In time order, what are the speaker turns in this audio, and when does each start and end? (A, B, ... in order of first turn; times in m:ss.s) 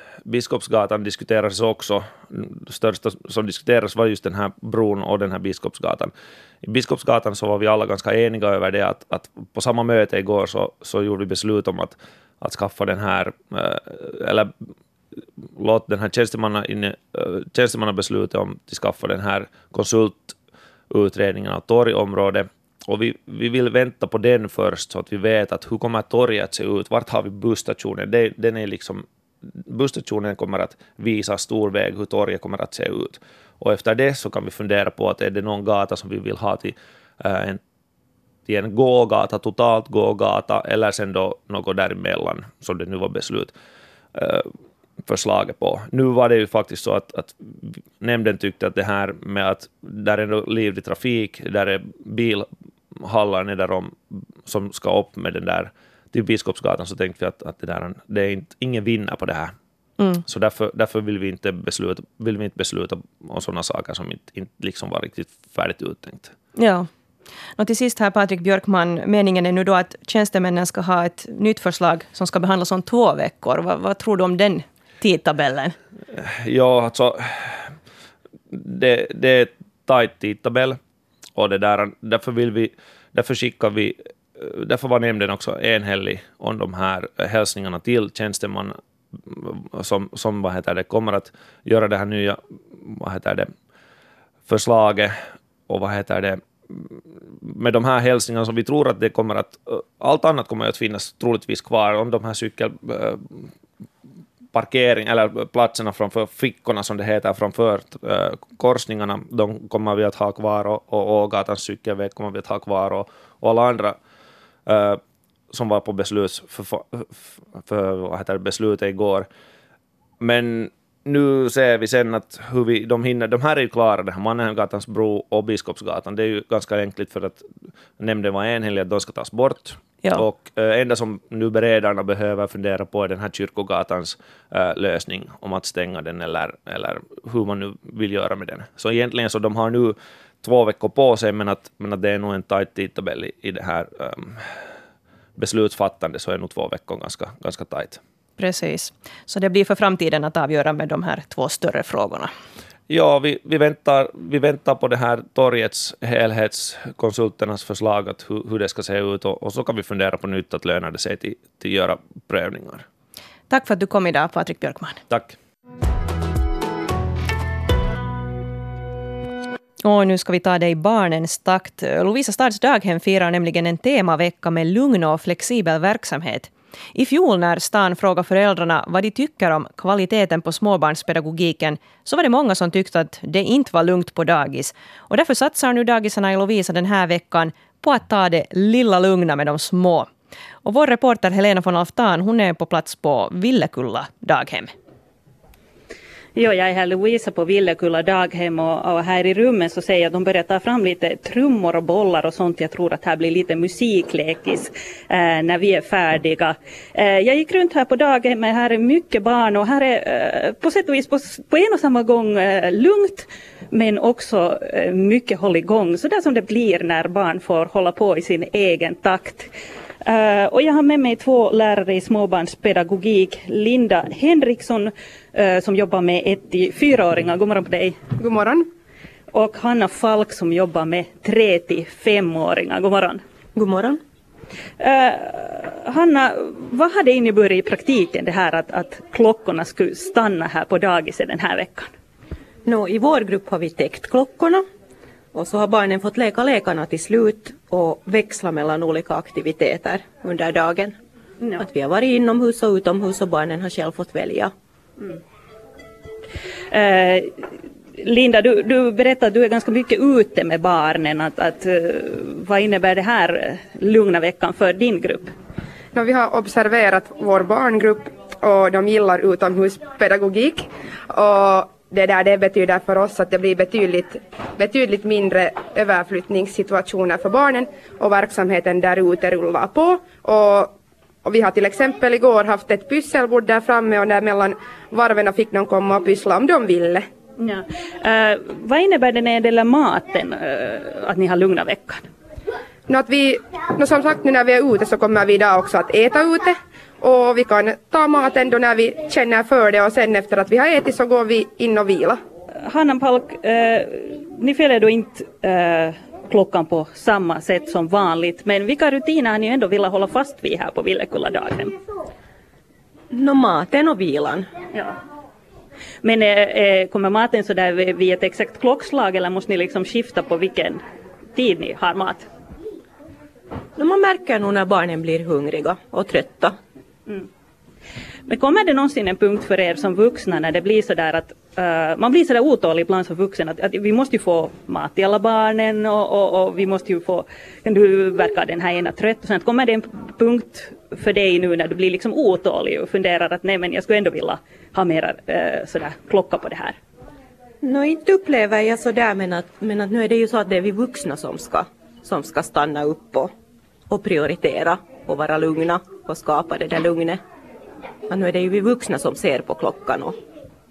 0:00.2-0:06.1 A
0:06.6-0:14.5 A
0:15.6-0:20.3 A
0:20.9-0:29.0 A
0:29.6-0:37.6 A
0:38.5-0:43.5 A
0:44.1-0:44.5 A
0:45.0-0:52.4 A
0:53.0-0:59.5 A
1:00.2-1:06.3 A
1:06.6-1:06.9 B
1:07.6-1:15.7 B
1:16.2-1:17.7 A
1:18.5-1:20.8 A
1:21.4-1:28.7 A
1:29.2-1:33.5 A
1:34.5-1:35.1 A
1:35.7-1:43.2 A
1:44.5-1:54.0 A
1:54.6-1:55.0 A
1:55.5-1:59.3 A
2:00.2-2:07.4 A
2:08.0-2:24.4 A
2:25.4-2:28.0 A
2:28.4-2:32.3 B
2:32.9-2:42.8 A
2:43.5-2:45.0 B
2:45.1-2:45.4 A
2:49.8-3:10.1 B
3:10.6-3:14.7 B
3:16.4-3:39.5 C
3:40.0-3:48.0 C
3:48.2-3:48.6 D
3:49.3-3:53.2 C
3:53.6-3:54.0 E
3:54.8-4:01.9 C
4:02.6-4:04.6 E
4:05.3-4:10.9 E
4:11.6-4:14.5 E
4:16.7-4:17.3 C
4:18.0-4:25.3 C
4:25.9-4:40.7 D
4:41.2-4:47.0 D
4:47.4-4:52.0 C
4:52.9-5:02.2 D
5:02.7-5:11.7 C
5:13.1-5:14.4 E
5:16.0-5:20.8 C
5:21.3-5:22.3 C
5:23.8-5:26.5 E
5:28.3-5:46.8 C
5:47.6-5:53.3 E
5:53.9-5:57.2 E
5:58.1-6:00.1 E